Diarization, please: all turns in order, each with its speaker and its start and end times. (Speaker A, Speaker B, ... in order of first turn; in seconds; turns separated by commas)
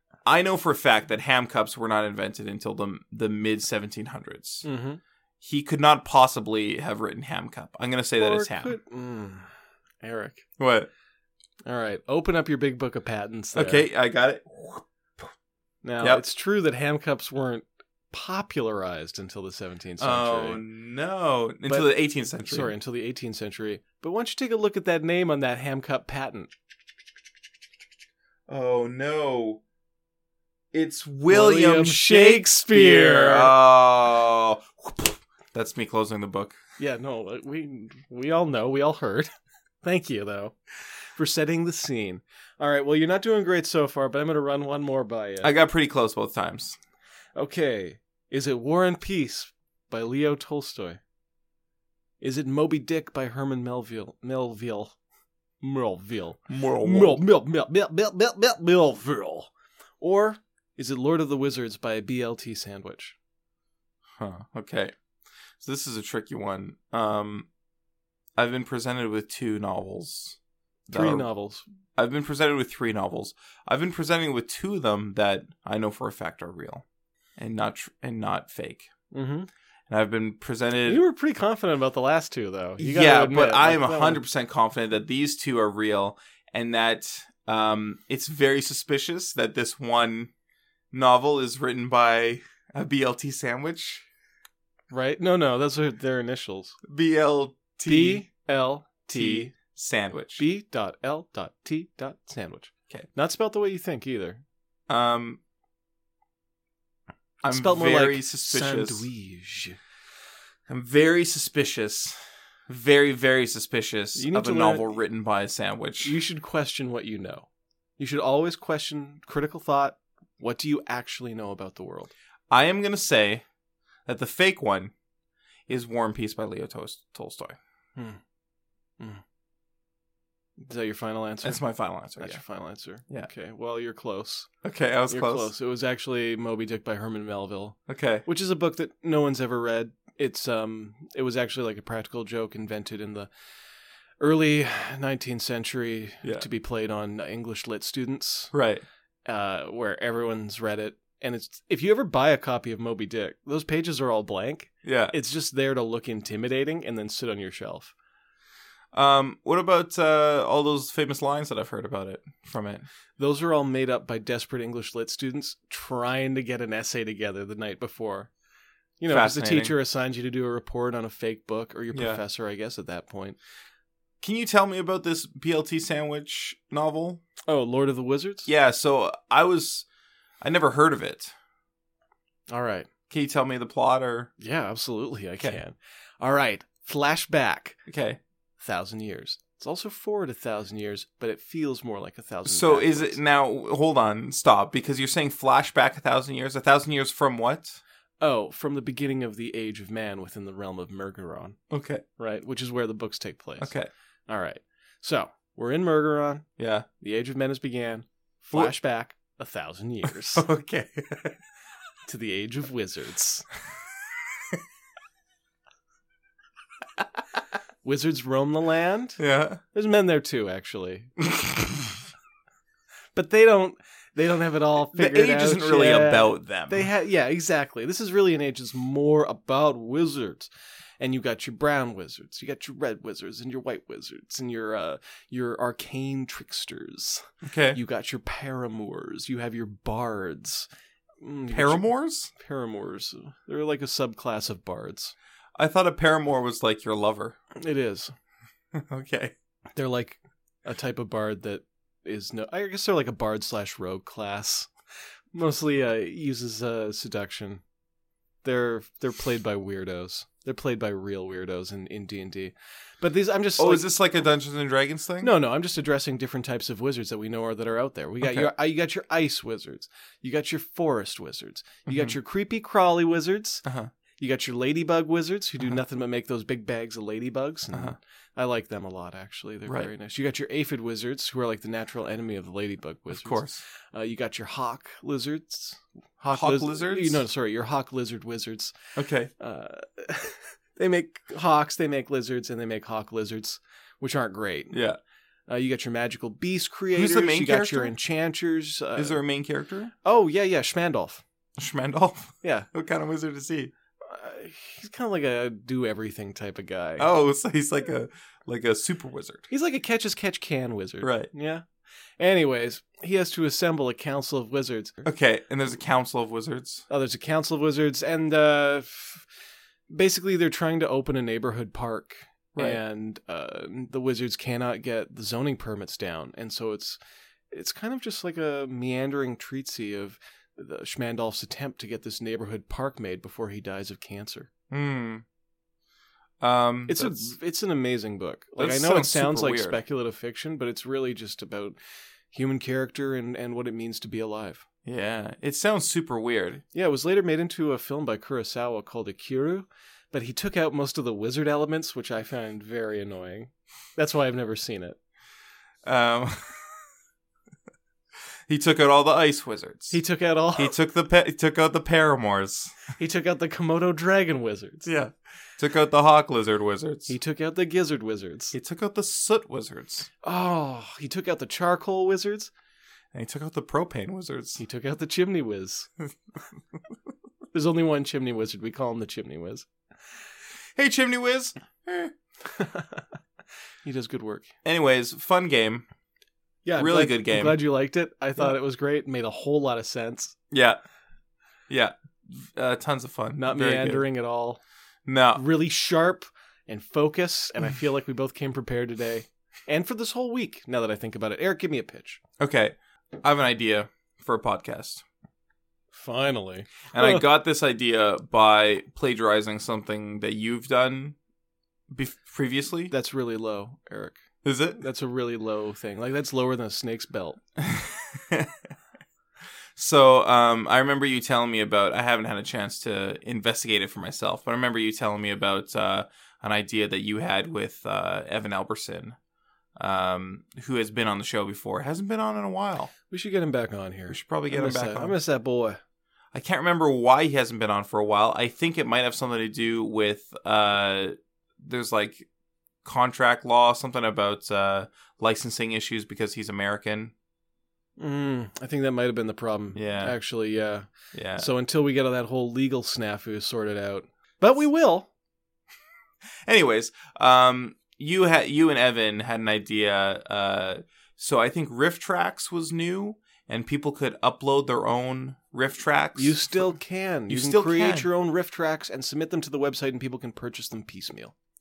Speaker A: 0.2-4.7, Speaker B: 4.7-5.0, Speaker A: 5.4-8.8, Speaker B: 8.2-9.5, Speaker B: 10.0-10.4, Speaker A: 10.6-10.9, Speaker B: 11.7-13.9, Speaker A: 13.5-15.3, Speaker B: 15.8-20.6, Speaker A: 20.0-22.7, Speaker B: 22.5-26.5, Speaker A: 28.5-29.6, Speaker A: 30.7-36.6, Speaker B: 31.3-33.5, Speaker B: 36.8-39.3, Speaker B: 39.8-40.6, Speaker B: 41.2-45.5, Speaker A: 45.4-46.8, Speaker B: 47.4-51.0, Speaker B: 52.2-55.0, Speaker B: 55.6-63.2, Speaker A: 56.5-57.2, Speaker A: 64.2-64.9, Speaker A: 65.6-67.5, Speaker A: 68.4-70.4, Speaker B: 70.9-71.7, Speaker A: 70.9-71.3, Speaker A: 72.0-76.8, Speaker A: 77.4-78.9, Speaker B: 79.1-79.5, Speaker A: 79.9-81.0, Speaker B: 80.8-84.2, Speaker A: 82.8-90.3, Speaker A: 90.9-94.1, Speaker B: 94.9-96.8, Speaker A: 96.8-98.2, Speaker B: 97.8-99.5, Speaker A: 99.1-100.4, Speaker B: 100.4-104.4, Speaker A: 104.9-105.4, Speaker A: 107.4-109.1, Speaker B: 107.4-109.8, Speaker A: 110.7-116.2, Speaker B: 114.2-115.0, Speaker B: 116.0-122.1, Speaker A: 122.5-123.5, Speaker A: 124.1-124.9, Speaker A: 125.7-127.6, Speaker B: 130.6-131.6, Speaker A: 131.4-132.4, Speaker B: 132.2-134.5, Speaker A: 134.6-135.5, Speaker B: 135.1-143.3, Speaker A: 137.9-138.2, Speaker B: 144.2-148.5, Speaker A: 148.5-148.8, Speaker B: 149.3-157.9, Speaker A: 154.8-155.1, Speaker A: 158.9-162.9, Speaker B: 163.2-168.3, Speaker B: 169.0-173.4, Speaker A: 169.1-169.7, Speaker A: 171.9-172.2, Speaker A: 174.2-177.2, Speaker B: 177.5-178.5, Speaker A: 178.5-179.9, Speaker A: 180.4-181.3, Speaker B: 182.5-182.9, Speaker A: 183.1-184.3, Speaker B: 184.4-187.8, Speaker A: 187.9-188.2, Speaker B: 188.6-193.2, Speaker A: 192.5-197.8, Speaker B: 198.2-201.6, Speaker A: 201.7-202.0, Speaker B: 202.2-203.7, Speaker A: 203.6-203.9, Speaker B: 204.3-206.5, Speaker A: 206.6-206.9, Speaker B: 207.0-210.4, Speaker A: 210.1-211.4, Speaker B: 212.1-213.5, Speaker B: 217.8-219.2, Speaker A: 219.2-219.6, Speaker B: 219.7-221.1, Speaker B: 223.2-240.7, Speaker A: 224.8-226.9, Speaker A: 237.4-237.8, Speaker B: 241.2-245.2, Speaker A: 241.5-242.3, Speaker A: 245.6-247.4, Speaker B: 247.6-248.1, Speaker A: 248.7-249.3, Speaker B: 249.8-254.7, Speaker B: 255.3-257.6, Speaker B: 258.4-263.9, Speaker A: 263.6-265.3, Speaker B: 265.2-273.6, Speaker A: 268.2-268.5, Speaker A: 271.9-272.1, Speaker A: 273.6-273.9, Speaker B: 274.2-288.8, Speaker A: 283.1-283.6, Speaker A: 286.3-287.2, Speaker A: 289.0-289.3, Speaker B: 289.4-294.8, Speaker A: 294.7-295.0, Speaker B: 295.5-299.2, Speaker A: 296.9-297.9, Speaker A: 299.0-299.9, Speaker B: 300.0-301.2, Speaker A: 301.6-303.7, Speaker B: 302.4-302.7, Speaker B: 304.0-307.1, Speaker A: 307.0-309.5, Speaker B: 309.5-311.7, Speaker A: 311.0-311.3, Speaker B: 312.2-315.1, Speaker A: 315.1-316.9, Speaker B: 316.9-319.3, Speaker B: 319.9-327.0, Speaker A: 322.6-322.8, Speaker B: 327.5-334.5, Speaker A: 334.7-335.2, Speaker A: 336.4-337.3, Speaker B: 336.9-341.8, Speaker A: 338.6-339.8, Speaker B: 342.3-344.6, Speaker A: 344.9-346.6, Speaker B: 346.7-355.0, Speaker A: 355.8-356.8, Speaker A: 358.5-360.0, Speaker B: 359.9-360.8, Speaker A: 360.6-362.8, Speaker B: 363.0-364.9, Speaker A: 364.9-367.1, Speaker B: 367.1-368.6, Speaker A: 368.5-370.1, Speaker B: 370.2-372.5, Speaker A: 373.1-374.6, Speaker B: 374.6-375.9, Speaker B: 377.5-379.7, Speaker A: 380.8-382.1, Speaker B: 382.5-383.1, Speaker B: 383.8-384.5, Speaker A: 384.6-385.9, Speaker B: 386.6-390.4, Speaker A: 386.8-387.6, Speaker A: 390.5-390.8, Speaker A: 391.7-394.1, Speaker B: 393.4-394.6, Speaker A: 395.1-395.4, Speaker B: 395.4-402.2, Speaker A: 402.4-405.0, Speaker B: 405.9-407.2, Speaker A: 406.9-411.2, Speaker A: 411.9-412.9, Speaker B: 412.9-414.2, Speaker A: 414.4-414.8, Speaker B: 414.8-417.4, Speaker A: 417.6-418.5, Speaker A: 419.8-429.2, Speaker A: 429.8-432.9, Speaker B: 433.1-435.8, Speaker A: 434.1-435.2, Speaker A: 436.3-442.3, Speaker A: 442.8-447.1, Speaker B: 448.0-455.1, Speaker A: 449.8-450.1, Speaker A: 451.1-451.5, Speaker A: 456.5-466.7, Speaker B: 466.2-471.3, Speaker A: 467.3-468.1